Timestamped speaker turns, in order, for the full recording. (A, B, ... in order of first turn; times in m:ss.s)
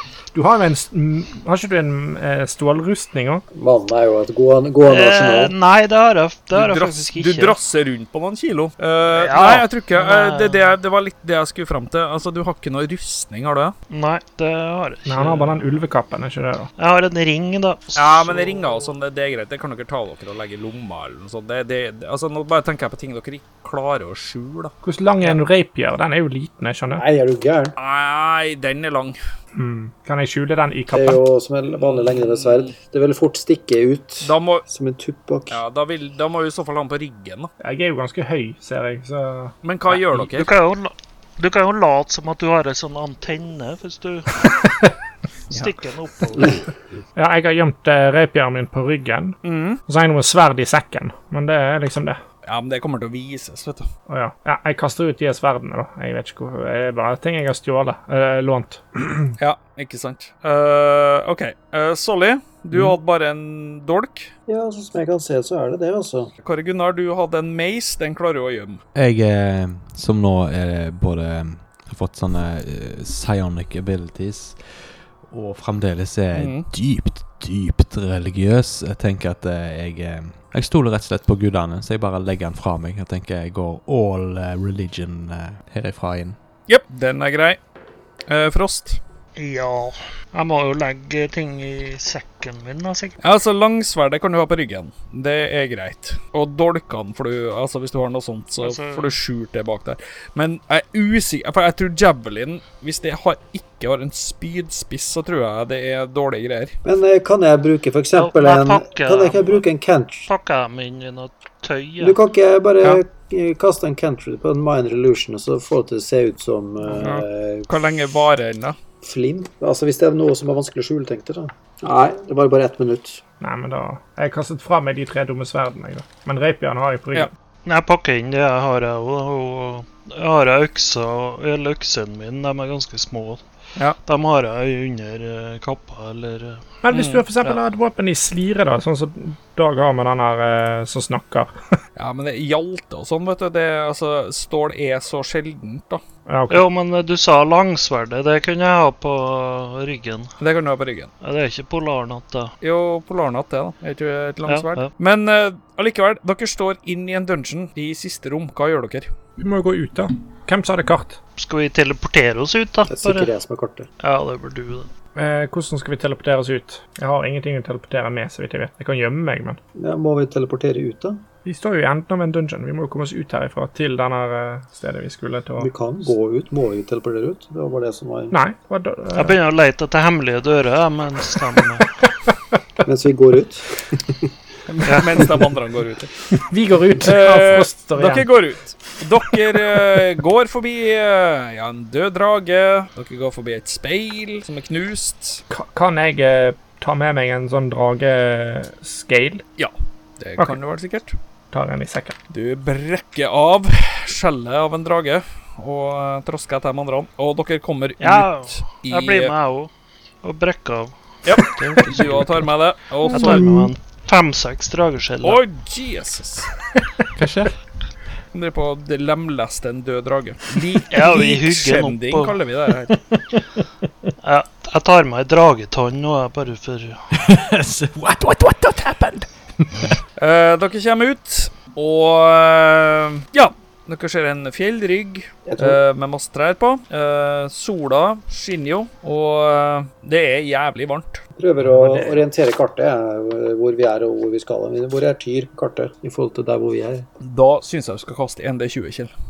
0:00.3-0:03.4 A
0:03.5-0:05.6 B
0:04.8-0:07.6 C
0:06.5-0:13.8 D
0:09.1-0:10.6 C
0:13.9-0:15.6 C
0:15.1-0:16.7 A
0:16.8-0:18.6 C
0:18.0-0:24.7 D
0:24.8-0:27.0 A
0:27.0-0:27.8 B
0:27.8-0:29.2 D
0:29.6-0:31.2 A
0:30.9-0:35.6 B
0:31.8-0:32.7 D
0:34.2-0:34.7 D
0:35.5-0:37.5 D
0:37.6-0:39.5 A
0:39.6-0:40.5 D
0:40.2-0:44.4 C
0:45.5-0:45.8 D
0:45.5-0:46.6 C
0:47.2-0:52.2 A
0:49.4-0:49.8 D
0:52.4-0:53.9 D
0:54.1-0:59.3 A
0:59.4-1:04.3 D
1:04.5-1:06.3 B
1:06.4-1:08.8 D
1:09.0-1:26.4 E
1:16.3-1:16.7 D
1:26.7-1:27.6 D
1:28.3-1:29.0 D
1:29.4-1:33.2 C
1:33.2-1:46.8 D
1:38.6-1:39.1 C
1:46.8-1:50.3 B
1:48.2-1:49.6 C
1:50.3-1:52.2 C
1:52.0-1:57.7 B
1:56.9-1:57.2 A
1:57.0-1:58.8 D
1:59.0-2:03.2 B
2:03.4-2:07.3 A
2:07.7-2:13.4 C
2:14.0-2:16.7 C
2:16.8-2:21.5 A
2:16.9-2:17.5 D
2:22.0-2:26.0 D
2:26.3-2:26.7 A
2:26.5-2:30.3 C
2:30.4-2:31.1 D
2:31.2-2:32.5 C
2:32.6-2:39.1 D
2:34.5-2:34.9 C
2:39.4-2:41.2 A
2:41.4-2:43.3 C
2:42.9-2:43.9 B
2:44.0-2:44.9 C
2:45.2-2:49.6 A
2:49.8-2:51.2 B
2:51.4-2:55.7 A
2:55.6-2:58.3 B
2:58.3-2:59.4 A
2:59.2-3:01.8 C
3:02.8-3:04.3 B
3:04.9-3:06.1 D
3:06.3-3:08.3 A
3:07.0-3:15.4 D
3:15.5-3:19.4 A
3:19.6-3:21.2 D
3:21.5-3:22.2 A
3:22.3-3:29.3 D
3:28.0-3:29.7 C
3:30.2-3:32.5 C
3:31.2-3:33.6 D
3:33.1-3:35.4 C
3:35.2-3:36.5 D
3:37.2-3:37.6 E
3:38.3-3:43.0 D
3:40.9-3:42.4 C
3:44.2-3:47.1 C
3:47.1-3:50.0 E
3:50.2-4:01.2 D
3:55.5-3:55.8 B
4:01.4-4:07.1 B
4:01.7-4:02.2 A
4:07.2-4:09.1 D